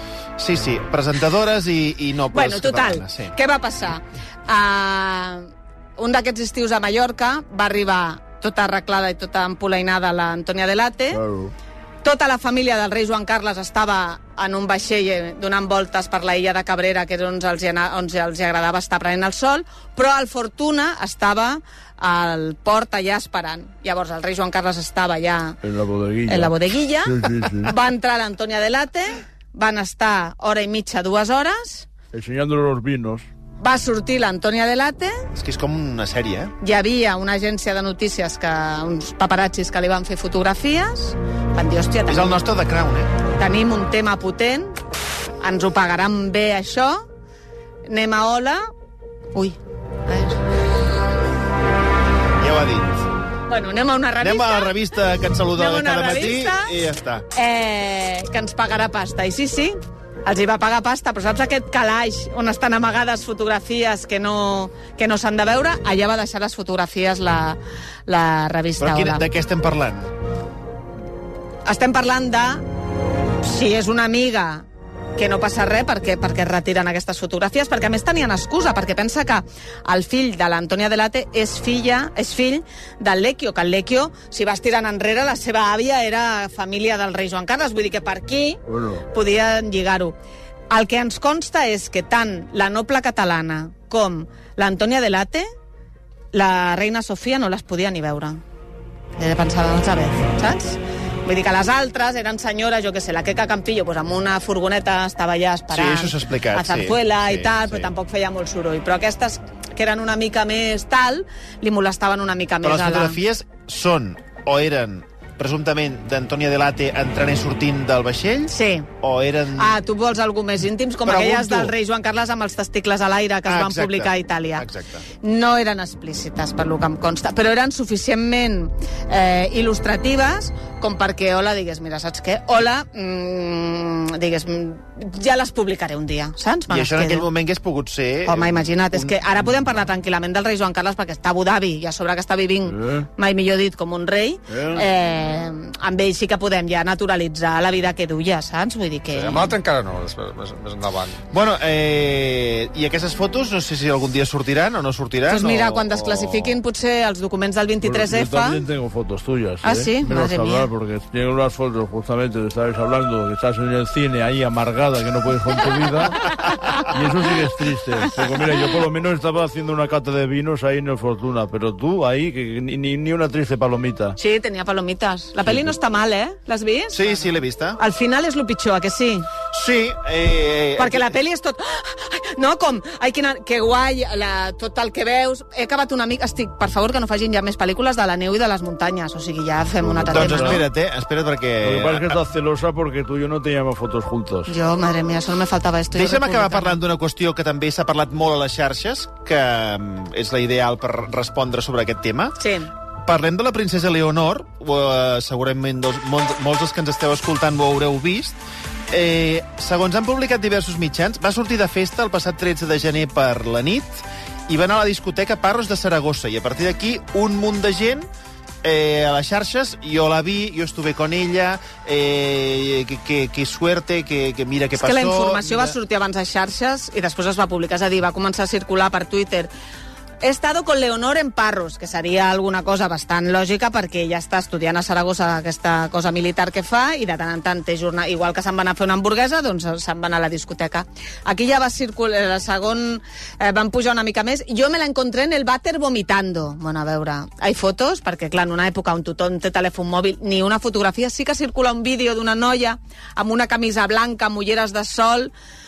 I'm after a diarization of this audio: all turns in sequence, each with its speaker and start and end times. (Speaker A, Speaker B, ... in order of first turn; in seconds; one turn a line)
Speaker A: 0.4-3.3
Speaker B: 2.3-11.2
Speaker C: 11.1-11.5
Speaker B: 12.0-25.6
Speaker C: 25.6-27.7
Speaker B: 26.3-31.9
Speaker C: 32.1-33.2
Speaker B: 33.6-35.2
Speaker A: 35.3-36.5
Speaker B: 36.6-42.4
Speaker A: 42.1-43.1
Speaker B: 43.3-44.8
Speaker B: 45.4-47.0
Speaker B: 47.9-48.6
Speaker B: 49.3-50.4
Speaker A: 52.4-53.0
Speaker B: 53.5-54.8
Speaker A: 54.2-57.2
Speaker B: 55.5-56.7
Speaker B: 57.3-69.2
Speaker A: 68.8-70.1
Speaker B: 71.7-72.6
Speaker B: 73.4-74.7
Speaker B: 75.2-90.1
Speaker C: 88.7-89.0
Speaker B: 90.7-95.5
Speaker B: 96.3-98.4
Speaker B: 99.2-113.2
Speaker A: 105.7-107.9
Speaker A: 112.6-119.8
Speaker B: 118.5-118.9
Speaker B: 119.6-124.7
Speaker A: 121.0-121.7
Speaker A: 123.5-125.0
Speaker B: 125.2-137.3
Speaker A: 136.7-139.8
Speaker B: 138.3-149.6
Speaker C: 142.8-143.0
Speaker C: 144.5-144.8
Speaker D: 149.1-151.2
Speaker A: 151.3-156.0
Speaker B: 155.3-158.7
Speaker D: 156.0-156.6
Speaker C: 157.8-174.1
Speaker B: 159.6-160.7
Speaker B: 174.2-179.3
Speaker A: 176.9-177.8
Speaker A: 179.5-181.1
Speaker B: 180.8-190.7
Speaker C: 189.8-190.7
Speaker A: 190.1-192.2
Speaker C: 191.6-194.5
Speaker B: 194.5-196.8
Speaker A: 195.9-202.3
Speaker B: 202.4-202.7
Speaker A: 203.0-208.4
Speaker A: 208.9-218.1
Speaker A: 218.6-225.7
Speaker B: 224.8-229.5
Speaker B: 230.2-255.3